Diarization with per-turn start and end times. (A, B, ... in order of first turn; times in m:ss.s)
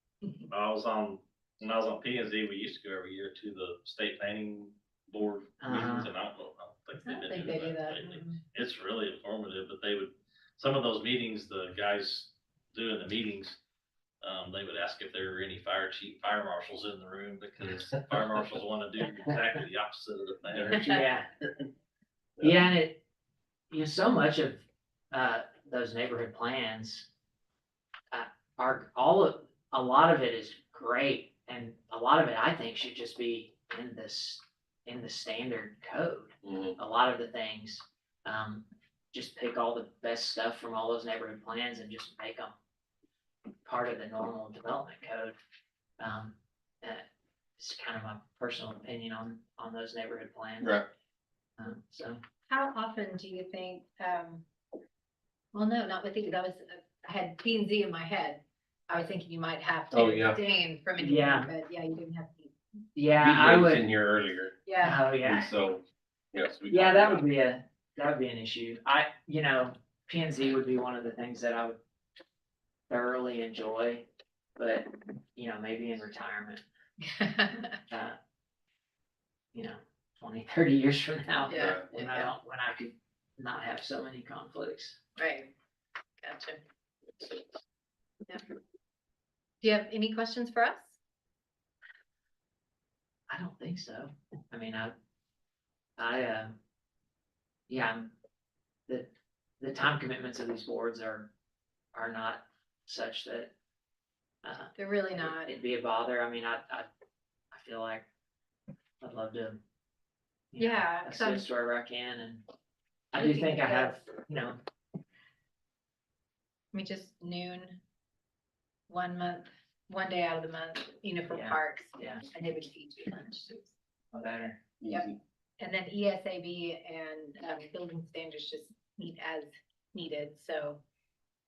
0:00.2-0:00.5 A
0:00.5-0:13.6 B
0:05.6-0:06.1 C
0:07.0-0:08.4 A
0:14.2-0:20.8 B
0:20.5-0:21.1 D
0:20.9-0:21.3 C
0:22.4-0:23.0 C
0:23.7-0:27.1 C
0:28.1-0:42.6 C
0:36.4-0:36.8 D
0:43.6-0:45.3 C
0:46.0-0:47.0 C
0:47.6-0:50.8 C
0:50.6-0:50.9 D
0:51.6-0:52.2 C
0:52.5-0:54.4 A
0:55.5-1:02.5 A
0:59.9-1:00.4 D
1:01.0-1:01.5 C
1:02.9-1:03.8 C
1:03.2-1:04.6 D
1:04.6-1:05.0 A
1:04.8-1:05.5 C
1:05.2-1:05.8 D
1:06.3-1:07.2 D
1:06.7-1:11.8 C
1:12.9-1:14.0 C
1:14.6-1:16.6 C
1:17.1-1:17.8 A
1:17.9-1:18.2 C
1:19.5-1:25.0 C
1:21.5-1:22.3 A
1:21.5-1:21.8 D
1:25.2-1:25.5 A
1:26.2-1:26.6 A
1:29.6-1:31.0 A
1:33.3-1:34.9 C
1:36.0-1:36.6 C
1:37.7-1:38.1 C
1:39.6-1:41.3 C
1:41.9-1:43.5 C
1:44.4-1:46.9 C
1:44.7-1:45.5 A
1:47.5-1:48.0 C
1:49.0-1:49.6 C
1:50.5-1:52.4 C
1:50.6-1:51.4 A
1:53.1-1:54.6 C
1:53.1-1:53.9 A
1:56.7-1:57.8 A
1:58.9-2:03.7 A
2:01.3-2:02.2 C
2:04.1-2:04.6 C
2:04.8-2:05.1 D
2:05.6-2:10.8 A